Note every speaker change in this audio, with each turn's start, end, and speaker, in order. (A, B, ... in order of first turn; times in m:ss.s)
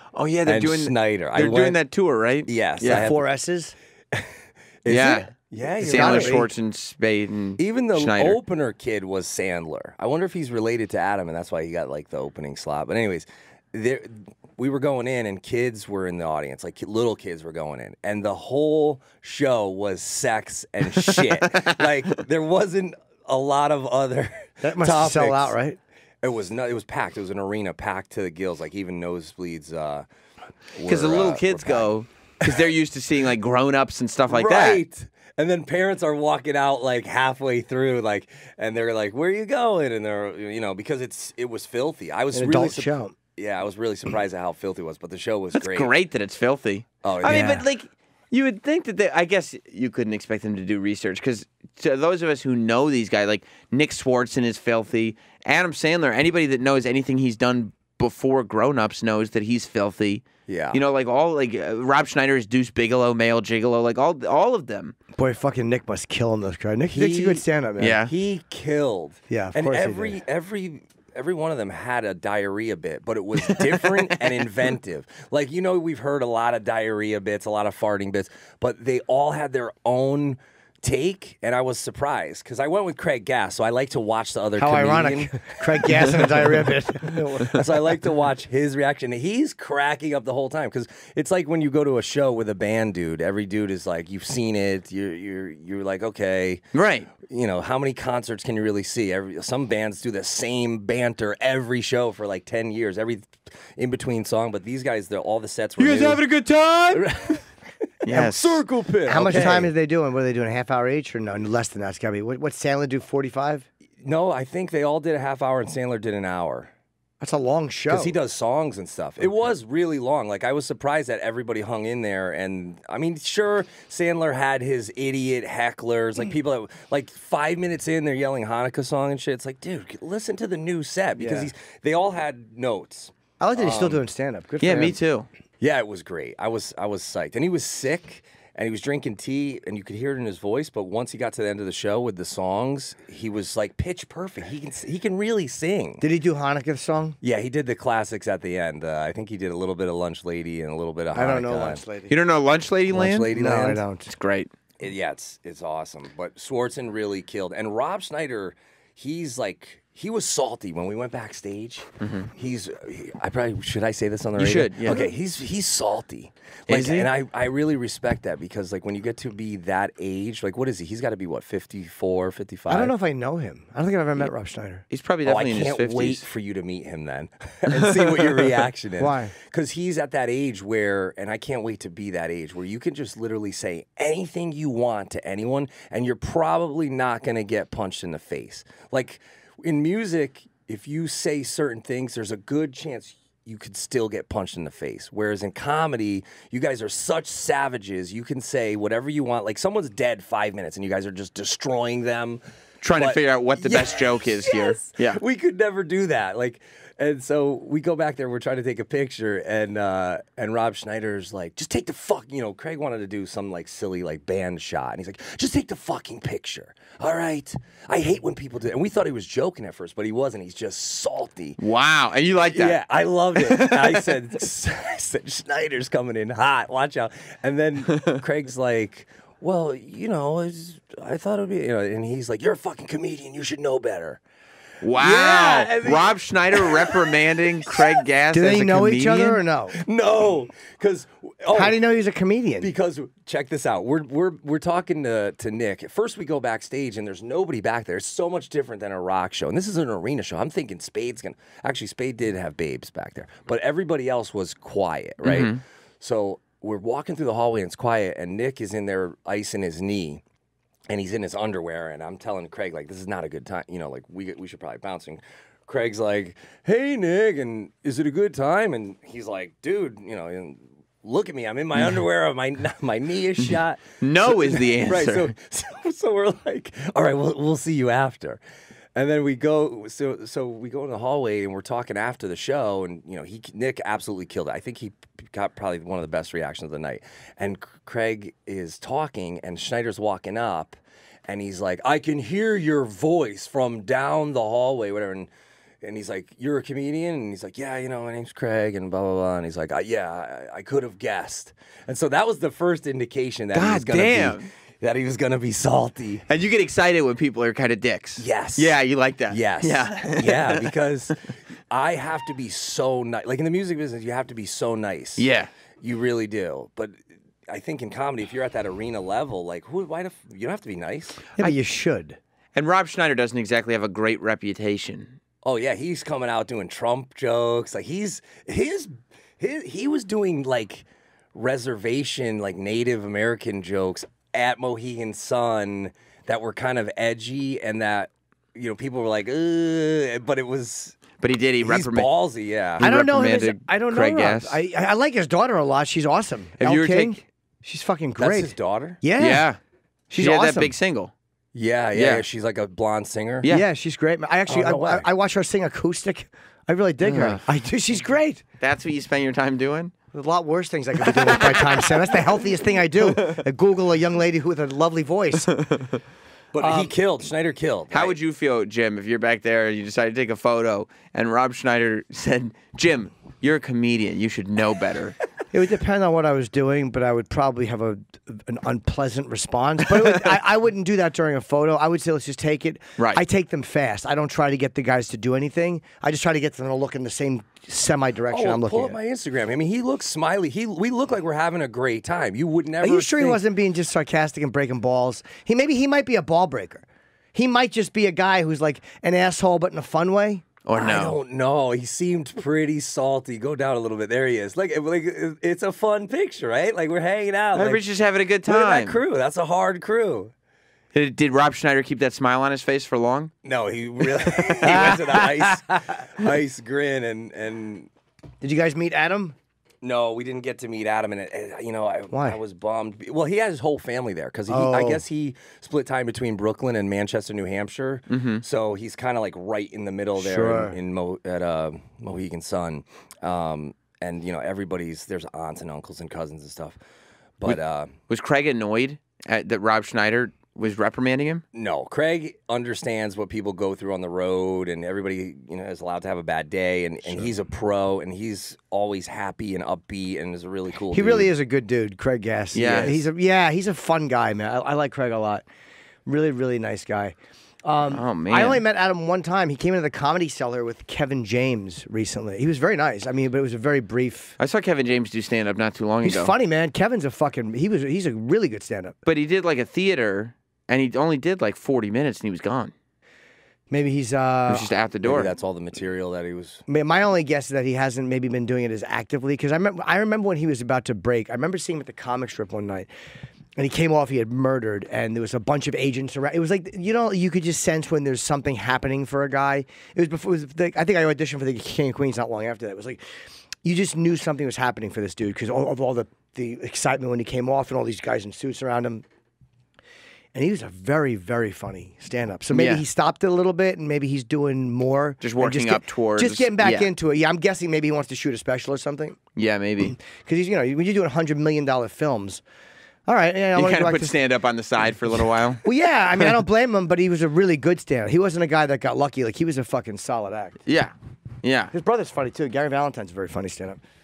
0:00.1-0:03.0 A
0:00.4-0:01.8 B
0:02.4-0:03.2 B
0:02.8-0:03.7 C
0:04.8-0:06.4 B
0:04.9-0:05.3 A
0:05.8-0:06.5 C
0:05.8-0:08.4 A
0:07.6-0:25.6 B
0:21.0-0:21.8 A
0:24.6-0:25.8 C
0:26.2-0:30.0 B
0:30.7-0:32.7 B
0:30.8-0:34.8 A
0:34.3-0:45.9 B
0:42.3-0:43.2 C
0:45.5-1:04.9 A
0:47.0-0:47.6 B
0:47.2-0:47.6 C
1:00.5-1:00.8 B
1:05.2-1:08.0 C
1:06.9-1:07.4 B
1:07.8-1:08.1 A
1:08.0-1:26.4 B
1:09.3-1:10.2 C
1:13.5-1:14.4 A
1:24.6-1:27.7 C
1:27.1-1:36.6 B
1:36.7-1:37.1 A
1:37.2-1:46.3 B
1:45.8-1:47.1 A
1:46.9-1:47.4 B
1:48.0-1:48.5 A
1:48.1-1:48.5 C
1:48.2-1:49.7 B
1:49.0-1:53.7 C
1:54.0-1:56.7 B
1:57.2-1:58.2 C
1:57.9-2:14.0 B
2:11.2-2:11.5 C
2:13.4-2:15.0 C
2:14.6-2:15.3 A
2:15.6-2:26.0 B
2:26.0-2:27.2 C
2:27.2-2:31.8 B
2:31.1-2:32.2 C
2:32.1-2:33.3 A
2:32.9-2:33.8 B
2:33.3-2:34.1 C
2:34.1-2:34.5 A
2:34.8-2:52.9 B
2:42.0-2:42.3 A
2:44.4-2:45.0 A
2:46.7-2:47.1 A
2:52.7-2:54.8 C
2:54.9-2:56.2 A
2:55.2-3:41.6 B
2:59.0-2:59.3 C
3:22.8-3:25.2 A
3:41.6-3:42.8 A
3:42.5-3:54.2 B
3:43.4-3:44.0 A
3:54.8-3:59.4 A
3:55.0-3:57.1 B
3:58.3-3:59.8 C
3:59.7-4:01.8 B
4:01.5-4:02.7 C
4:02.6-4:20.2 B
4:15.2-4:15.6 A
4:20.9-4:38.4 B
4:33.4-4:35.3 A
4:38.9-4:55.3 B
4:55.8-5:06.2 B
5:03.5-5:04.5 A
5:06.3-5:10.7 A
5:08.2-5:11.1 B
5:11.7-5:15.2 B
5:15.2-5:15.5 A
5:15.8-5:21.2 B
5:21.4-5:22.2 C
5:22.5-5:25.2 A
5:25.4-5:41.0 B
5:41.2-5:42.1 A
5:41.6-5:42.8 B
5:42.8-5:44.6 A
5:42.8-5:49.4 C
5:46.6-5:47.2 A
5:48.2-5:49.0 B
5:49.2-5:49.6 A
5:50.1-5:50.7 C
5:50.2-5:51.1 A
5:51.5-5:53.5 B
5:51.9-5:52.2 A
5:53.5-5:58.4 C
5:54.5-5:55.1 B
5:57.0-5:57.4 A
5:58.6-5:59.9 A
6:00.1-6:05.5 C
6:01.4-6:01.7 A
6:05.6-6:06.0 A
6:06.5-6:08.1 B
6:06.6-6:06.9 C
6:07.9-6:15.2 A
6:15.5-6:29.0 C
6:28.3-6:33.4 B
6:32.8-6:36.8 C
6:37.3-6:40.4 C
6:40.6-6:41.2 A
6:40.7-6:47.8 B
6:47.5-6:49.0 A
6:48.4-6:50.3 B
6:50.9-6:53.3 A
6:53.4-6:57.9 B
6:54.6-6:55.5 C
6:58.4-6:59.3 C
6:59.8-7:16.8 B
7:02.1-7:02.4 C
7:04.5-7:05.0 C
7:08.1-7:08.4 A
7:10.2-7:10.8 C
7:17.4-7:17.9 B
7:18.1-7:21.4 A
7:21.5-7:31.3 B
7:30.9-7:35.4 C
7:32.5-7:33.0 A
7:36.0-7:44.4 C
7:37.9-7:38.6 A
7:44.4-7:46.3 A
7:46.0-7:49.0 C
7:49.0-7:52.7 A
7:53.7-7:54.7 C
7:54.5-7:55.3 A
7:55.0-7:56.6 B
7:56.7-8:02.9 C
8:03.6-8:13.0 C
8:13.6-8:19.0 C
8:20.3-8:29.2 C
8:22.5-8:22.8 A
8:25.2-8:26.9 A
8:29.4-8:29.9 A
8:29.8-8:32.4 C
8:33.1-8:34.2 C
8:33.6-8:35.6 A
8:35.6-8:40.6 C
8:40.7-8:41.7 A
8:41.7-8:43.8 C